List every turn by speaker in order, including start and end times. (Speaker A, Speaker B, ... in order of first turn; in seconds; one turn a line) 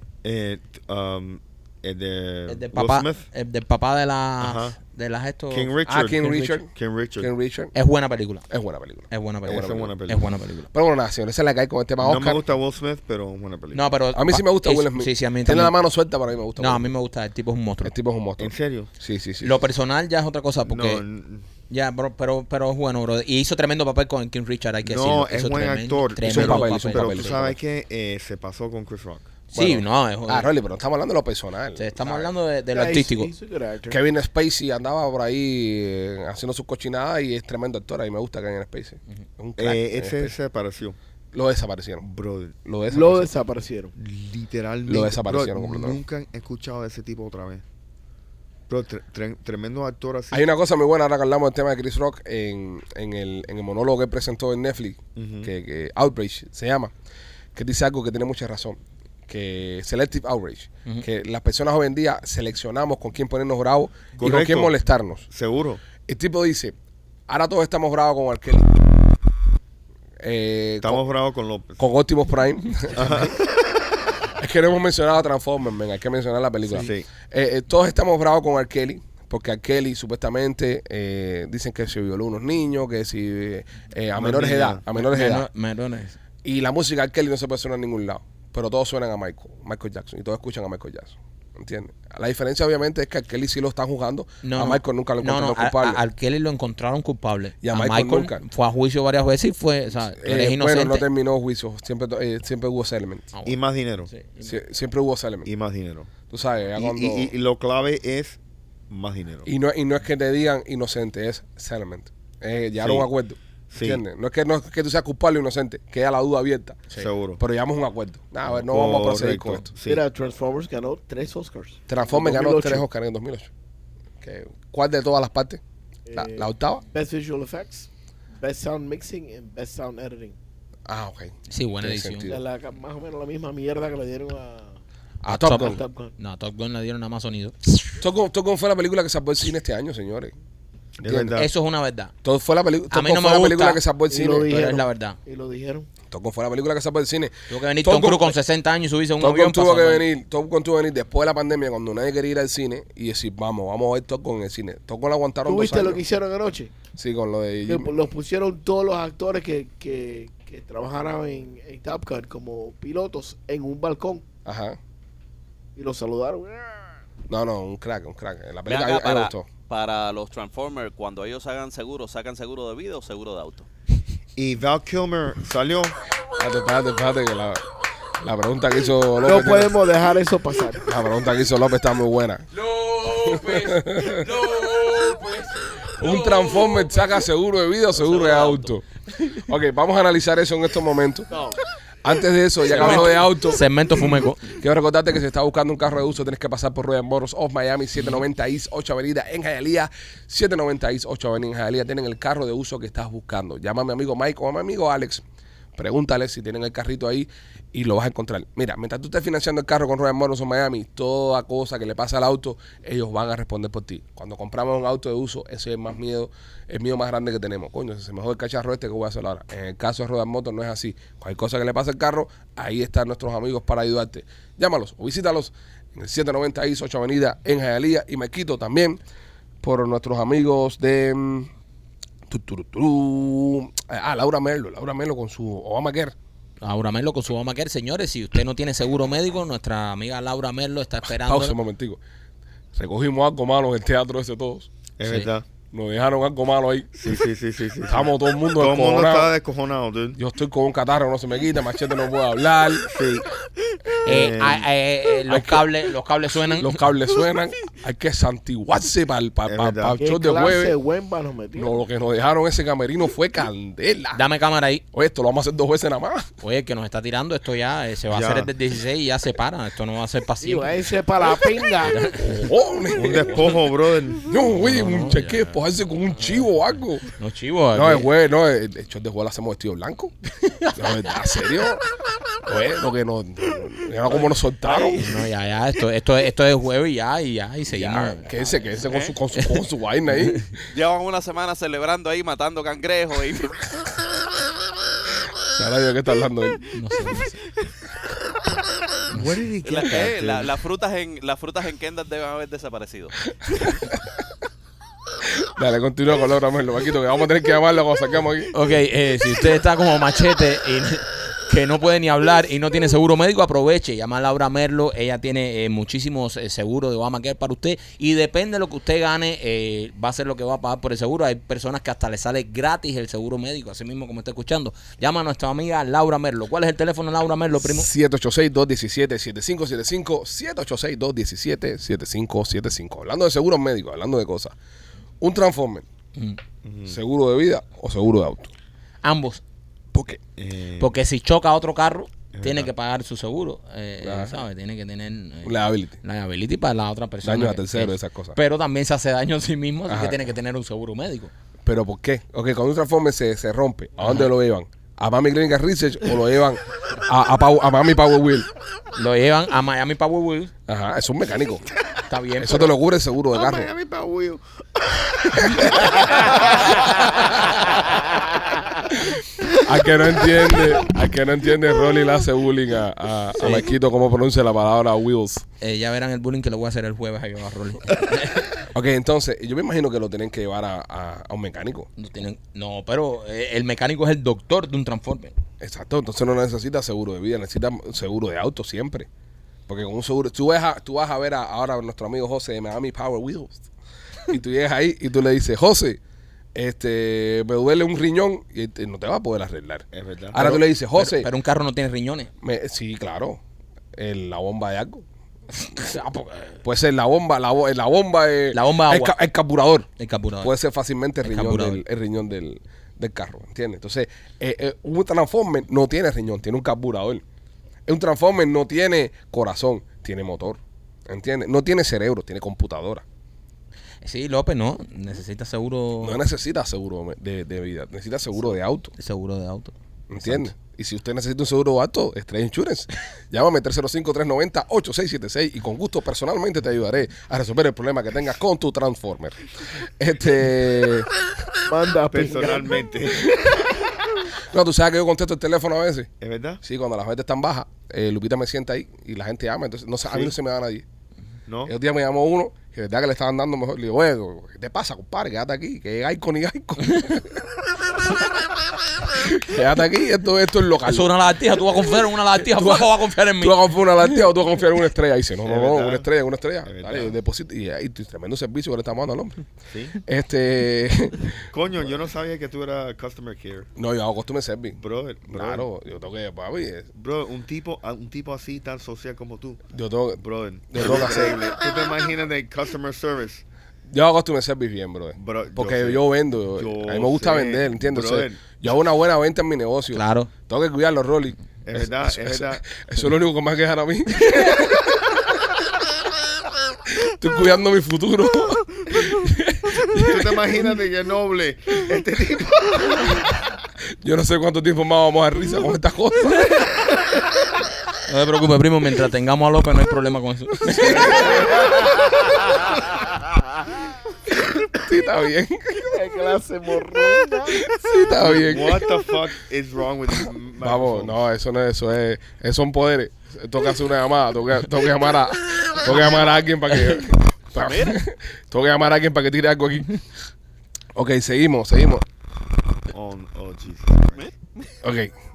Speaker A: 0.2-3.2
Speaker B: 2.5-5.7
Speaker A: 4.4-4.8
Speaker A: 5.5-7.3
Speaker C: 5.9-7.7
Speaker B: 6.2-6.6
Speaker B: 7.7-8.4
Speaker C: 8.5-9.9
Speaker B: 9.1-10.7
Speaker A: 9.4-10.2
Speaker C: 10.7-12.4
Speaker A: 12.0-13.8
Speaker B: 13.7-15.7
Speaker C: 14.1-16.9
Speaker B: 16.6-17.9
Speaker C: 17.9-19.6
Speaker A: 18.4-18.9
Speaker B: 19.4-21.0
Speaker A: 20.7-21.4
Speaker B: 21.7-27.5
Speaker A: 24.8-29.3
Speaker C: 26.2-27.6
Speaker B: 29.5-30.5
Speaker C: 29.5-32.3
Speaker B: 31.8-33.3
Speaker D: 32.7-34.0
Speaker C: 33.9-40.3
Speaker A: 39.6-41.0
Speaker C: 41.3-42.0
Speaker A: 42.0-42.6
Speaker C: 42.6-43.3
Speaker D: 42.9-44.0
Speaker A: 44.0-47.6
Speaker C: 44.9-46.0
Speaker A: 48.7-50.5
Speaker C: 50.3-56.9
Speaker A: 55.2-55.5
Speaker C: 57.5-65.2
Speaker A: 64.2-64.8
Speaker A: 65.3-65.8
Speaker C: 66.1-66.7
Speaker C: 67.3-68.9
Speaker C: 70.2-71.0
Speaker A: 70.8-71.8
Speaker C: 71.8-73.4
Speaker A: 72.9-73.3
Speaker C: 74.4-85.5
Speaker A: 76.7-77.1
Speaker A: 84.1-84.8
Speaker B: 84.9-86.2
Speaker C: 86.4-96.0
Speaker B: 94.4-101.1
Speaker C: 97.6-98.4
Speaker C: 100.2-103.3
Speaker B: 103.3-104.6
Speaker A: 103.5-104.1
Speaker C: 104.4-105.5
Speaker A: 105.5-106.1
Speaker C: 106.3-107.3
Speaker A: 106.7-109.5
Speaker C: 109.5-116.8
Speaker A: 112.8-113.1
Speaker A: 113.7-114.0
Speaker A: 117.0-117.4
Speaker C: 117.4-119.7
Speaker A: 118.5-120.0
Speaker D: 119.8-122.9
Speaker C: 121.9-123.5
Speaker C: 124.2-125.6
Speaker D: 126.1-130.4
Speaker C: 126.1-126.8
Speaker C: 130.9-132.4
Speaker B: 131.5-132.3
Speaker D: 132.3-134.8
Speaker B: 135.2-137.6
Speaker C: 135.3-135.8
Speaker D: 135.5-136.1
Speaker C: 138.0-140.3
Speaker A: 141.0-141.5
Speaker C: 141.0-141.4
Speaker B: 141.4-142.1
Speaker C: 142.2-144.5
Speaker B: 142.9-143.8
Speaker D: 144.1-145.9
Speaker B: 144.4-145.2
Speaker C: 146.1-148.4
Speaker B: 147.5-150.1
Speaker C: 149.2-156.0
Speaker D: 155.4-156.7
Speaker C: 156.9-157.9
Speaker D: 157.7-164.2
Speaker C: 164.4-164.8
Speaker D: 165.8-166.9
Speaker C: 167.3-169.4
Speaker E: 168.7-173.7
Speaker A: 174.4-175.9
Speaker C: 176.3-177.6
Speaker C: 178.2-179.7
Speaker D: 179.2-180.9
Speaker C: 180.9-182.4
Speaker B: 182.6-186.8
Speaker C: 183.3-184.3
Speaker C: 186.0-188.8
Speaker B: 188.0-188.7
Speaker C: 189.3-191.3
Speaker D: 191.3-191.6
Speaker C: 192.0-193.6
Speaker B: 192.7-194.5
Speaker D: 192.8-193.2
Speaker C: 194.5-205.2
Speaker B: 198.0-198.2
Speaker C: 205.8-229.0
Speaker C: 229.6-231.5
Speaker C: 232.3-236.1
Speaker B: 236.6-241.6
Speaker C: 241.1-242.0
Speaker C: 242.7-244.7
Speaker A: 245.0-245.4
Speaker B: 245.0-245.3
Speaker C: 245.7-246.9
Speaker A: 246.9-250.2
Speaker C: 247.9-249.3
Speaker C: 250.2-252.9
Speaker A: 252.9-253.3
Speaker A: 254.0-254.7
Speaker B: 254.0-256.8
Speaker C: 255.3-255.7
Speaker C: 256.6-260.8
Speaker A: 259.4-260.0
Speaker D: 260.0-261.7
Speaker C: 261.6-264.2
Speaker B: 264.1-264.8
Speaker C: 264.9-266.3
Speaker B: 266.4-270.7
Speaker A: 268.1-268.5
Speaker D: 270.4-272.1
Speaker B: 271.8-272.4
Speaker C: 272.1-273.7
Speaker A: 272.9-274.5
Speaker C: 274.2-277.1
Speaker B: 274.5-275.4
Speaker B: 277.1-278.1
Speaker C: 277.7-280.1
Speaker B: 280.3-281.6
Speaker C: 280.8-281.9
Speaker C: 282.4-285.0
Speaker D: 284.1-285.2
Speaker B: 285.0-288.6
Speaker C: 287.7-290.6
Speaker E: 288.9-289.1
Speaker B: 289.4-290.4
Speaker E: 290.7-293.9
Speaker C: 295.5-296.7
Speaker B: 296.7-297.4
Speaker A: 299.1-300.5
Speaker E: 299.6-303.2
Speaker C: 303.4-304.0
Speaker C: 305.4-308.5
Speaker B: 308.5-327.9
Speaker C: 327.6-334.6
Speaker C: 335.2-335.9
Speaker A: 336.6-337.0
Speaker C: 336.9-338.5
Speaker B: 339.0-339.4
Speaker C: 339.9-340.2
Speaker A: 340.2-340.9
Speaker B: 340.8-351.3
Speaker A: 342.3-342.7
Speaker C: 344.0-344.4
Speaker C: 345.4-345.9
Speaker C: 347.2-348.4
Speaker C: 349.9-350.2
Speaker C: 351.6-358.5
Speaker B: 354.0-354.3
Speaker B: 358.9-360.5
Speaker C: 360.7-361.7
Speaker B: 362.1-362.8
Speaker C: 362.4-363.7
Speaker A: 363.3-367.1
Speaker C: 365.4-366.0
Speaker C: 368.9-375.4
Speaker B: 373.4-373.7
Speaker B: 375.6-378.6
Speaker C: 378.7-381.9
Speaker B: 382.0-385.3
Speaker C: 385.6-389.1
Speaker C: 389.7-393.6
Speaker C: 394.3-396.0
Speaker C: 396.6-401.3
Speaker A: 399.9-400.6
Speaker B: 400.4-402.3
Speaker C: 402.4-403.4
Speaker C: 403.9-405.0
Speaker B: 405.8-406.6
Speaker C: 406.6-409.9
Speaker B: 408.5-409.1
Speaker B: 410.0-410.5
Speaker C: 410.4-417.2
Speaker B: 411.2-411.8
Speaker C: 417.9-423.1
Speaker B: 424.0-426.2
Speaker C: 426.0-428.9
Speaker B: 428.9-430.5
Speaker C: 430.1-441.1
Speaker D: 441.7-442.8
Speaker A: 442.1-443.4
Speaker C: 443.2-443.5
Speaker C: 444.4-446.1
Speaker A: 446.2-446.6
Speaker C: 446.6-450.9
Speaker A: 450.1-450.4
Speaker A: 451.4-451.7
Speaker C: 451.7-458.2
Speaker C: 459.0-461.1
Speaker B: 460.9-463.6
Speaker C: 462.6-462.9
Speaker C: 463.4-471.4
Speaker A: 465.4-466.1
Speaker A: 466.6-467.2
Speaker A: 469.7-470.0
Speaker A: 471.5-473.7
Speaker C: 473.8-476.9
Speaker A: 474.8-475.7
Speaker A: 476.9-479.6
Speaker C: 479.7-481.5
Speaker A: 480.2-483.4
Speaker C: 483.9-495.4
Speaker A: 485.2-488.8
Speaker B: 489.9-490.3
Speaker A: 491.7-492.6
Speaker C: 496.9-500.6
Speaker A: 499.9-503.1
Speaker C: 504.0-506.9
Speaker B: 508.1-511.4
Speaker C: 510.7-512.0
Speaker A: 510.8-511.6
Speaker D: 511.4-511.9
Speaker C: 514.5-516.0
Speaker D: 515.9-517.7
Speaker C: 517.5-519.0
Speaker A: 518.2-521.2
Speaker C: 520.6-530.0
Speaker E: 527.5-528.0
Speaker C: 531.0-532.0
Speaker A: 532.9-534.3
Speaker C: 534.8-535.1